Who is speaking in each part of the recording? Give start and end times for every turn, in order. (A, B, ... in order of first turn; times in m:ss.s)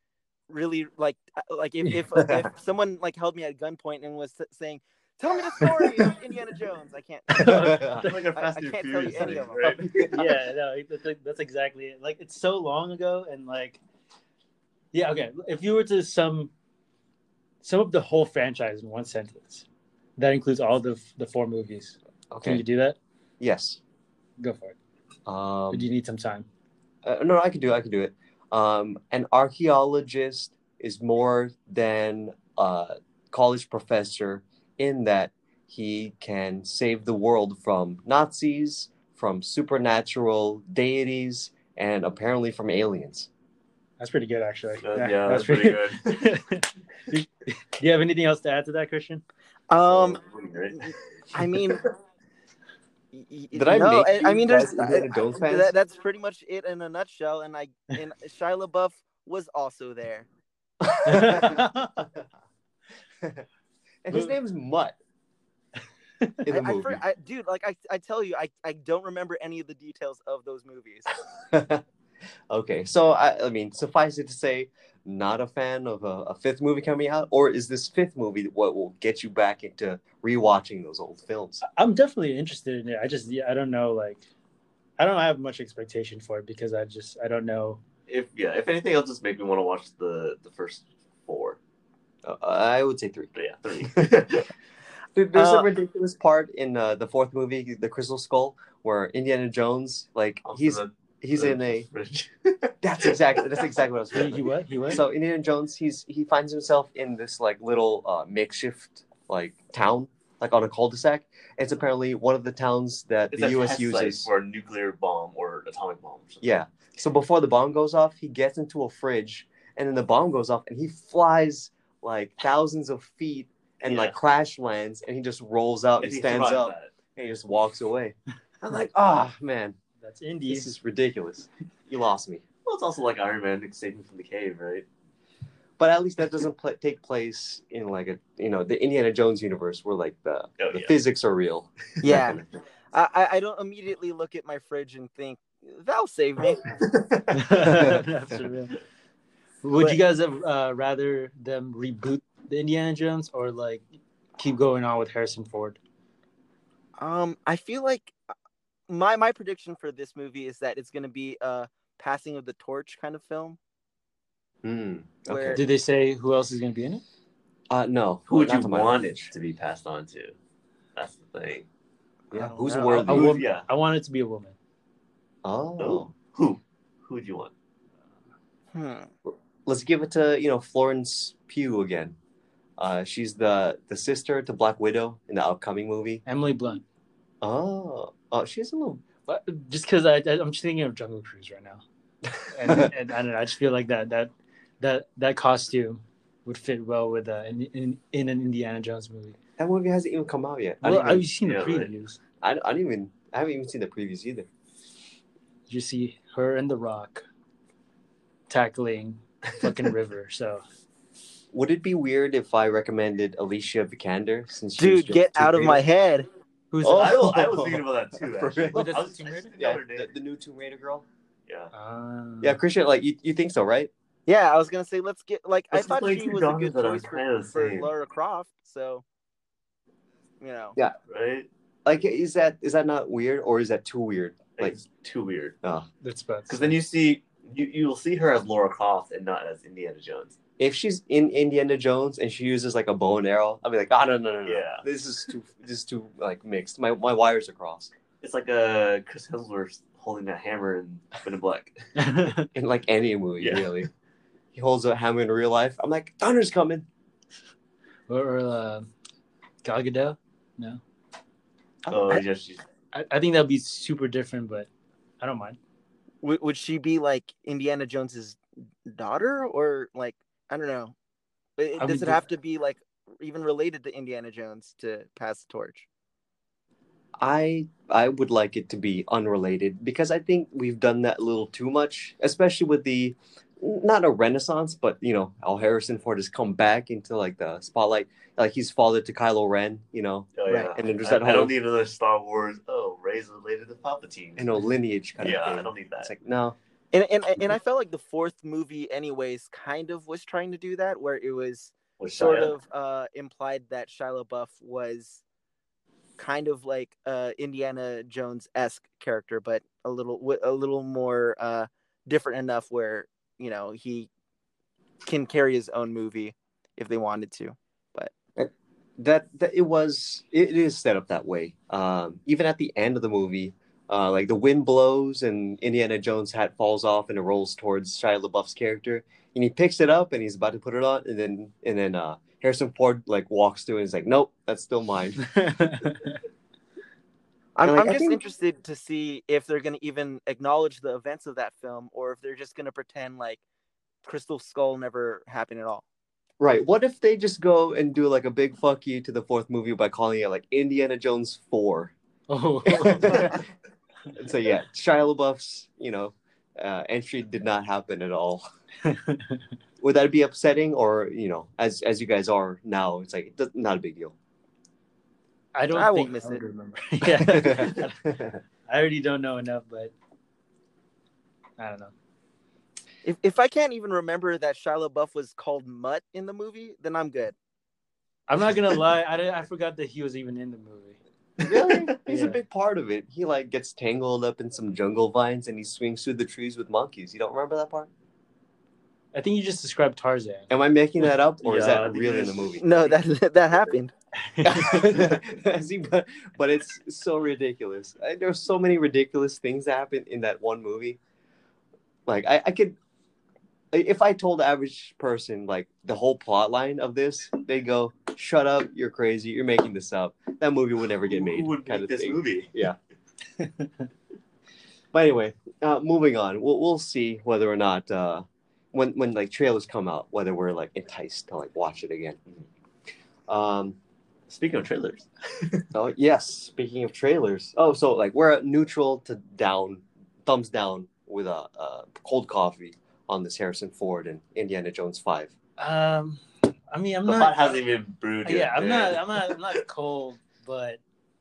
0:00.5-0:09.8 A
0:02.1-0:02.4 B
0:05.6-0:06.1 B
0:07.3-0:08.1 B
0:07.4-0:08.3 C
0:08.0-0:10.3 D
0:09.6-0:10.1 B
0:10.1-0:13.8 C
0:14.9-0:16.5 C
0:17.6-0:19.6 C
0:20.2-0:23.0 C
0:22.3-0:22.6 B
0:23.4-0:23.8 B
0:24.4-0:24.8 C
0:25.3-0:25.8 B
0:25.7-0:26.5 C
0:27.0-0:43.3 B
0:44.0-0:49.2 C
0:44.8-0:46.2 D
0:49.7-0:50.2 A
0:49.8-0:51.0 D
0:50.8-0:51.8 A
0:53.1-1:00.3 A
0:53.5-0:55.7 B
1:00.8-1:02.2 B
1:01.0-1:01.9 C
1:04.0-1:05.0 B
1:06.4-1:07.0 B
1:06.5-1:11.1 A
1:11.5-1:11.8 B
1:12.5-1:21.6 B
1:21.6-1:24.2 C
1:25.0-1:27.8 C
1:28.1-1:31.6 D
1:32.2-1:33.3 B
1:33.3-1:34.5 D
1:33.9-1:34.3 B
1:35.1-1:41.9 B
1:35.3-1:35.7 A
1:40.4-1:43.1 D
1:42.8-1:54.3 B
1:44.1-1:45.0 C
1:53.3-1:56.5 D
1:56.4-2:09.8 B
2:03.8-2:04.2 D
2:06.0-2:06.9 D
2:10.0-2:10.7 C
2:10.5-2:12.4 B
2:12.6-2:14.9 D
2:15.8-2:22.4 B
2:20.6-2:20.9 D
2:22.0-2:26.7 A
2:27.3-2:28.8 C
2:27.5-2:28.0 B
2:29.6-2:33.8 C
2:34.4-2:35.8 C
2:37.0-2:38.2 A
2:38.9-2:43.6 A
2:44.6-2:45.6 B
2:45.3-2:45.6 A
2:45.5-2:47.0 C
2:47.7-2:49.3 B
2:48.3-2:50.3 D
2:50.9-2:51.6 D
2:52.3-2:53.4 B
2:52.3-2:53.0 A
2:52.9-2:54.5 C
2:53.0-2:53.7 D
2:55.4-2:56.1 B
2:55.8-2:57.5 D
2:58.7-2:59.1 A
2:59.2-3:02.2 B
3:02.8-3:06.2 B
3:06.2-3:06.8 C
3:07.4-3:09.0 B
3:09.2-3:11.8 C
3:12.5-3:19.4 C
3:19.6-3:21.2 B
3:20.8-3:22.2 C
3:21.4-3:21.9 D
3:22.4-3:24.5 B
3:25.7-3:27.2 C
3:28.5-3:30.6 C
3:31.5-3:35.8 B
3:34.8-3:36.3 A
3:36.7-3:37.2 C
3:36.8-3:37.8 B
3:36.9-3:40.1 D
3:38.4-3:39.0 B
3:38.7-3:39.5 C
3:39.5-3:41.0 B
3:41.7-3:42.6 C
3:42.4-3:43.9 B
3:44.2-3:49.0 A
3:45.7-3:47.9 D
3:50.4-3:50.8 A
3:51.1-3:51.5 D
3:51.8-3:54.8 B
3:54.6-3:55.6 D
3:55.6-3:55.9 B
3:56.0-3:56.8 C
3:56.5-4:00.4 D
4:00.6-4:07.9 B
4:04.4-4:04.8 D
4:08.2-4:11.9 D
4:12.0-4:12.5 C
4:12.5-4:13.9 B
4:13.4-4:13.7 D
4:14.5-4:16.9 B
4:18.1-4:18.9 C
4:19.6-4:20.8 C
4:21.9-4:22.6 D
4:21.9-4:22.2 A
4:22.9-4:24.7 C
4:25.2-4:25.6 C
4:26.2-4:30.9 A
4:31.6-4:35.8 A
4:31.8-4:32.2 C
4:37.2-4:51.5 B
4:50.3-4:54.5 D
4:54.4-4:56.6 B
4:55.2-4:56.1 D
4:56.9-5:05.2 A
5:02.0-5:02.6 D
5:06.2-5:14.1 A
5:15.0-5:18.1 A
5:18.4-5:35.3 B
5:35.2-5:36.1 C
5:37.6-5:43.4 A
5:37.6-5:38.2 B
5:44.0-5:45.8 A
5:46.4-5:51.9 B
5:52.3-5:53.4 C
5:52.6-5:53.4 B
5:54.1-5:58.5 B
5:58.8-5:59.4 C
5:59.8-6:04.1 B
6:05.5-6:09.9 C
6:05.7-6:06.4 A
6:07.2-6:08.4 B
6:11.6-6:11.9 C
6:13.0-6:17.3 A
6:18.3-6:21.0 C
6:21.4-6:27.9 B
6:22.0-6:22.4 C
6:29.1-6:30.5 C
6:30.5-6:32.7 B
6:31.4-6:32.5 D
6:32.6-6:33.9 A
6:34.2-6:34.8 C
6:34.4-6:41.0 B
6:42.1-6:42.8 B
6:43.7-6:52.8 B
6:51.1-6:52.5 D
6:53.4-6:53.6 C
6:54.9-7:02.2 B
7:03.3-7:03.8 B
7:04.3-7:05.6 D
7:05.7-7:15.3 B
7:15.6-7:17.6 C
7:17.0-7:19.6 D
7:18.2-7:20.8 C